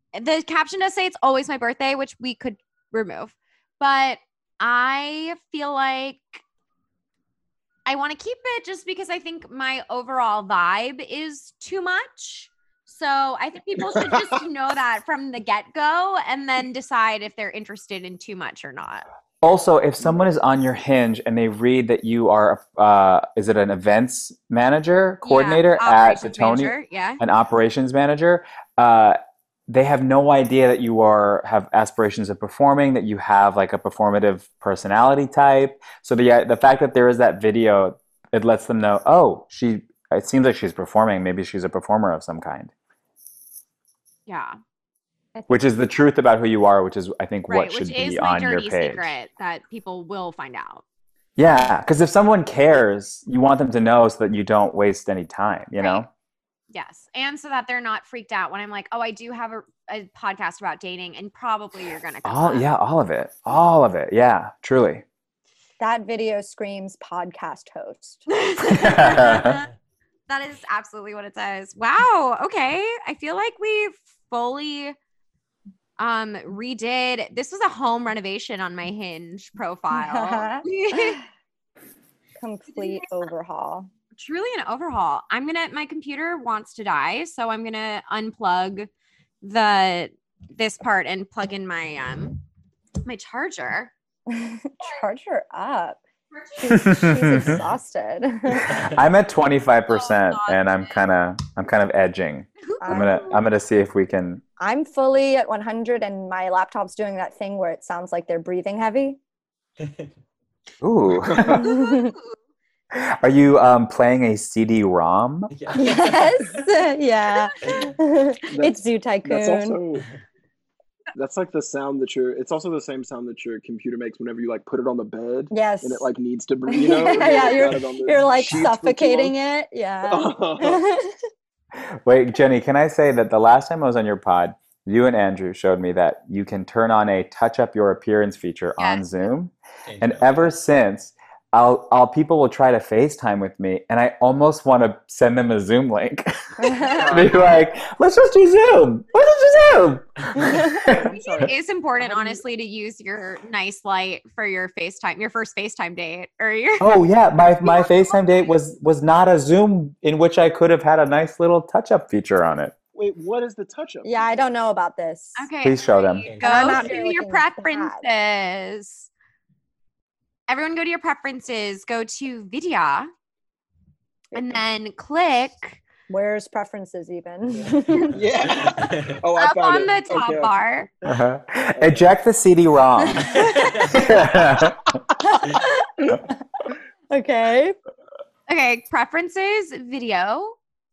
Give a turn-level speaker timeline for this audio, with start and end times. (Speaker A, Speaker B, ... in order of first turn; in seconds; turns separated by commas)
Speaker A: 0.1-6.4, Speaker A: 7.8-19.0, Speaker B: 13.9-14.2, Speaker C: 19.4-42.7, Speaker A: 25.2-27.2, Speaker A: 44.3-44.6, Speaker C: 45.5-49.1, Speaker A: 47.5-50.8, Speaker C: 51.4-56.1, Speaker A: 55.8-56.0, Speaker A: 56.7-62.7, Speaker C: 62.2-65.0, Speaker D: 65.8-68.2, Speaker A: 68.3-69.7, Speaker C: 68.7-69.6, Speaker A: 70.3-75.0, Speaker A: 76.0-81.2, Speaker D: 79.9-81.2, Speaker D: 82.4-83.9, Speaker A: 82.7-83.0, Speaker A: 84.2-88.9, Speaker A: 89.4-92.4, Speaker A: 93.0-93.9, Speaker D: 94.3-96.0, Speaker A: 96.3-96.7, Speaker D: 96.6-98.8, Speaker C: 96.7-97.6, Speaker C: 98.7-104.4, Speaker E: 98.7-99.0, Speaker A: 99.9-101.0, Speaker A: 102.6-103.4, Speaker D: 102.8-103.3, Speaker D: 104.6-109.2, Speaker E: 109.8-110.1, Speaker C: 110.8-111.7, Speaker B: 111.1-111.6, Speaker D: 111.4-112.2, Speaker A: 111.7-112.3, Speaker C: 112.9-115.5, Speaker E: 115.5-116.6, Speaker D: 115.7-119.8, Speaker A: 117.4-117.8, Speaker E: 117.6-117.9, Speaker B: 118.5-120.1, Speaker B: 121.1-129.3, Speaker D: 125.5-126.1, Speaker D: 126.7-131.1, Speaker B: 130.0-130.8, Speaker C: 132.0-151.0, Speaker A: 138.8-139.0, Speaker E: 139.8-140.6, Speaker D: 146.6-147.0, Speaker B: 146.8-147.4, Speaker B: 150.7-152.4, Speaker A: 151.2-156.9, Speaker C: 156.8-162.7, Speaker A: 157.6-158.5, Speaker B: 162.9-164.4, Speaker D: 164.0-165.5, Speaker A: 165.4-169.1, Speaker C: 165.6-166.3, Speaker E: 166.2-166.9, Speaker D: 166.4-168.0, Speaker A: 170.5-173.1, Speaker A: 174.3-175.8, Speaker D: 176.1-178.1, Speaker B: 177.9-180.6, Speaker E: 178.1-179.2, Speaker A: 179.3-180.9, Speaker C: 181.0-184.9, Speaker B: 181.8-182.0, Speaker D: 183.1-183.7, Speaker E: 183.3-184.1, Speaker D: 185.3-186.2, Speaker D: 187.1-187.8, Speaker A: 188.5-190.6